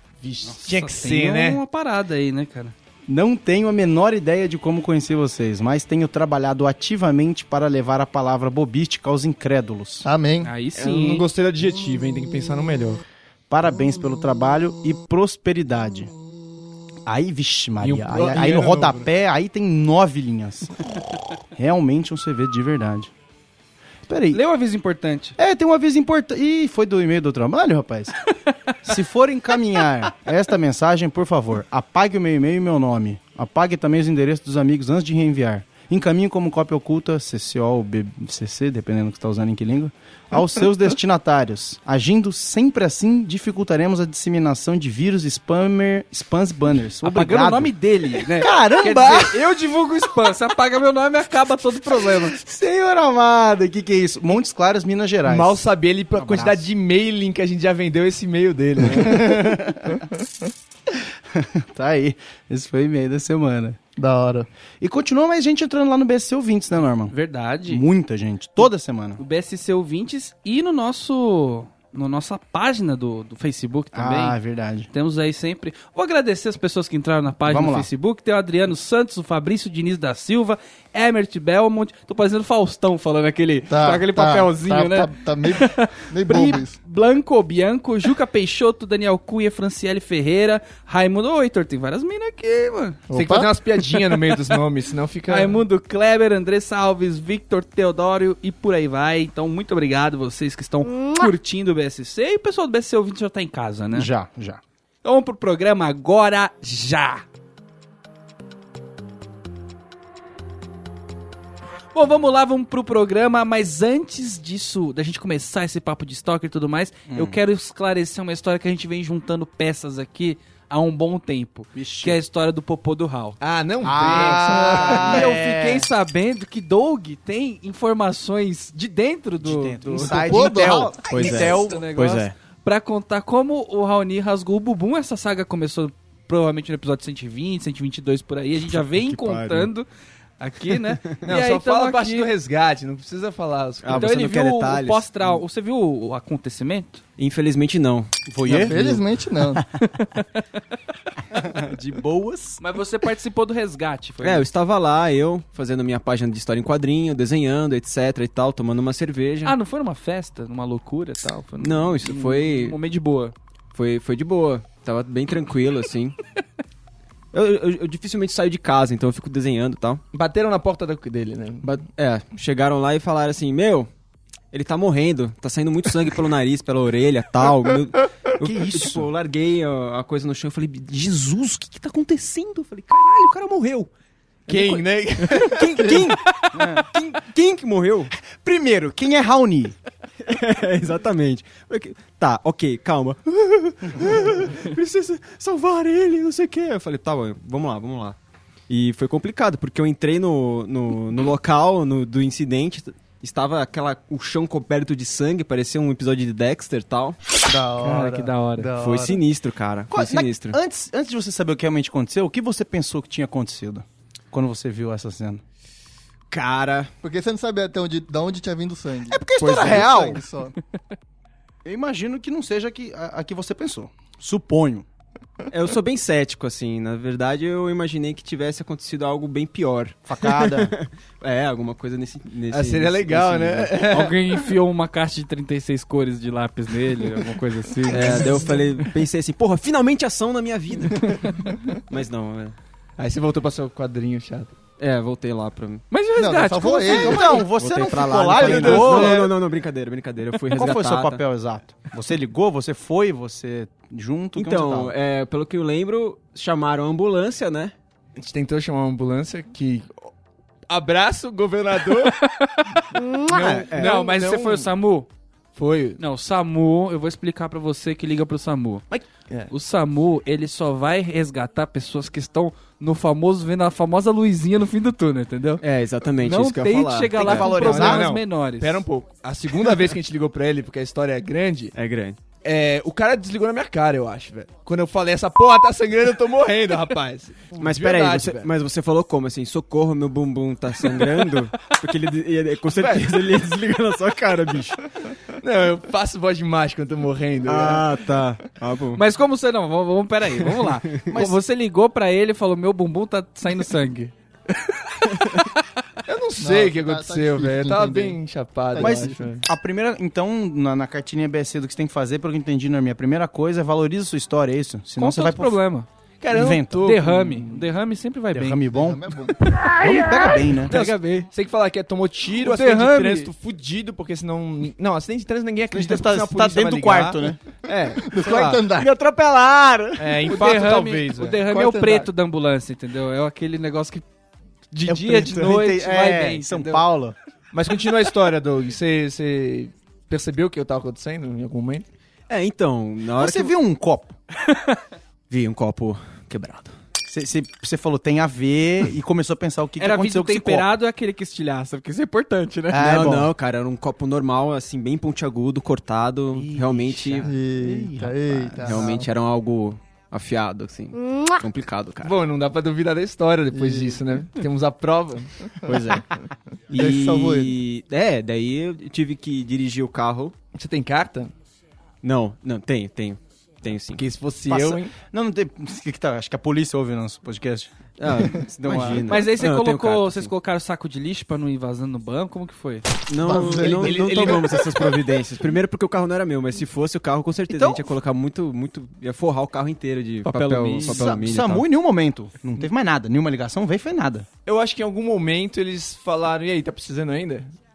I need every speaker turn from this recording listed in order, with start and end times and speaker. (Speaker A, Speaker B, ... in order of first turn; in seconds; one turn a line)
Speaker A: 0.2-1.6
Speaker B: 0.6-2.7
Speaker C: 3.1-10.1
Speaker D: 10.0-10.5
Speaker B: 10.4-11.2
Speaker A: 10.8-13.0
Speaker C: 13.5-16.1
Speaker C: 17.1-20.7
Speaker A: 17.8-19.1
Speaker C: 21.5-23.1
Speaker C: 24.1-24.4
Speaker B: 24.3-25.4
Speaker C: 25.4-28.1
Speaker C: 28.8-47.7
Speaker B: 47.0-52.4
Speaker C: 48.2-49.4
Speaker C: 52.3-55.5
Speaker A: 55.2-59.3
Speaker C: 56.1-56.6
Speaker C: 58.9-60.0
Speaker C: 61.3-63.8
Speaker D: 64.0-64.5
Speaker C: 64.8-67.1
Speaker B: 67.1-67.8
Speaker C: 67.7-69.2
Speaker B: 69.2-74.4
Speaker C: 73.9-74.9
Speaker B: 74.9-93.0
Speaker C: 77.5-77.9
Speaker D: 83.7-86.7
Speaker D: 93.1-93.5
Speaker A: 93.1-95.6
Speaker B: 95.3-104.1
Speaker C: 103.9-104.6
Speaker B: 105.0-107.2
Speaker B: 111.9-123.4
Speaker C: 117.1-117.4
Speaker C: 121.7-122.2
Speaker A: 123.4-125.0
Speaker C: 123.8-125.9
Speaker D: 124.4-125.3
Speaker B: 124.8-129.8
Speaker C: 129.4-131.4
Speaker D: 129.9-131.5
Speaker E: 131.0-132.3
Speaker B: 131.1-139.8
Speaker E: 138.7-139.7
Speaker B: 140.4-142.3
Speaker A: 141.2-144.1
Speaker E: 143.8-145.3
Speaker B: 143.9-147.0
Speaker E: 147.2-148.1
Speaker C: 148.3-149.0
Speaker D: 148.5-149.6
Speaker B: 149.9-150.2
Speaker C: 151.3-152.6
Speaker B: 152.6-154.5
Speaker E: 154.2-159.5
Speaker B: 159.4-163.3
Speaker E: 161.6-162.8
Speaker E: 163.7-166.2
Speaker E: 167.3-170.0
Speaker A: 170.1-171.7
Speaker E: 171.6-173.9
Speaker E: 174.5-183.9
Speaker C: 178.4-179.1
Speaker A: 184.5-185.7
Speaker E: 184.5-186.2
Speaker C: 185.8-186.9
Speaker E: 186.9-188.1
Speaker C: 188.2-189.8
Speaker E: 190.2-198.2
Speaker E: 198.7-207.2
Speaker D: 207.4-209.2
Speaker B: 207.8-208.7
Speaker E: 208.8-210.6
Speaker C: 209.9-215.4
Speaker E: 216.3-216.9
Speaker D: 217.0-220.5
Speaker C: 219.1-220.2
Speaker E: 219.5-219.8
Speaker C: 221.6-224.9
Speaker E: 225.5-233.7
Speaker C: 230.1-230.7
Speaker A: 232.5-234.2
Speaker B: 233.8-238.6
Speaker E: 237.9-241.3
Speaker B: 241.0-241.6
Speaker E: 241.9-242.6
Speaker A: 243.0-244.5
Speaker E: 244.8-245.8
Speaker B: 245.9-247.4
Speaker D: 246.2-247.5
Speaker C: 246.8-249.3
Speaker E: 247.6-251.2
Speaker A: 248.4-249.3
Speaker C: 250.5-254.9
Speaker E: 254.3-257.7
Speaker A: 258.2-260.1
Speaker A: 260.7-262.1
Speaker B: 262.0-263.0
Speaker A: 262.9-264.7
Speaker E: 263.2-263.9
Speaker B: 263.7-265.1
Speaker A: 265.5-266.0
Speaker B: 266.0-268.8
Speaker A: 268.9-269.5
Speaker B: 269.5-275.6
Speaker E: 275.6-277.5
Speaker B: 276.2-278.8
Speaker C: 277.2-278.1
Speaker A: 277.2-281.7
Speaker E: 281.7-282.2
Speaker A: 282.4-288.5
Speaker E: 287.6-294.8
Speaker A: 292.8-293.2
Speaker A: 295.4-297.9
Speaker E: 297.4-299.0
Speaker B: 298.9-305.8
Speaker E: 300.6-301.0
Speaker C: 301.1-301.4
Speaker A: 306.1-309.4
Speaker D: 306.4-308.2
Speaker D: 308.7-309.2
Speaker C: 308.8-315.6
Speaker B: 315.0-315.9
Speaker A: 316.2-317.1
Speaker C: 316.3-317.6
Speaker B: 316.8-318.6
Speaker C: 318.3-319.1
Speaker D: 318.7-319.4
Speaker C: 319.7-320.7
Speaker B: 320.7-321.3
Speaker A: 320.7-328.6
Speaker B: 322.3-323.3
Speaker C: 325.7-327.4
Speaker D: 327.9-328.9
Speaker E: 328.7-330.0
Speaker A: 329.9-331.4
Speaker B: 330.2-334.0
Speaker D: 331.4-332.1
Speaker B: 334.7-336.8
Speaker C: 334.9-337.1
Speaker A: 337.5-341.8
Speaker E: 342.3-343.5
Speaker C: 343.1-344.1
Speaker B: 344.5-344.8
Speaker E: 345.3-346.8
Speaker C: 347.1-350.7
Speaker B: 349.8-352.8
Speaker C: 352.7-353.3
Speaker E: 352.7-357.3
Speaker C: 356.3-359.0
Speaker D: 357.2-359.1
Speaker E: 358.6-362.2
Speaker A: 362.0-365.3
Speaker D: 363.5-364.0
Speaker E: 365.6-366.1
Speaker E: 366.7-370.3
Speaker D: 366.7-367.5
Speaker A: 370.5-371.3
Speaker E: 372.0-374.0
Speaker A: 373.9-374.9
Speaker C: 374.5-379.1
Speaker E: 378.0-380.3
Speaker B: 379.1-382.8
Speaker E: 383.1-391.6
Speaker D: 383.2-384.4
Speaker A: 383.4-384.7
Speaker B: 390.2-391.2
Speaker C: 390.8-394.3
Speaker A: 394.4-397.5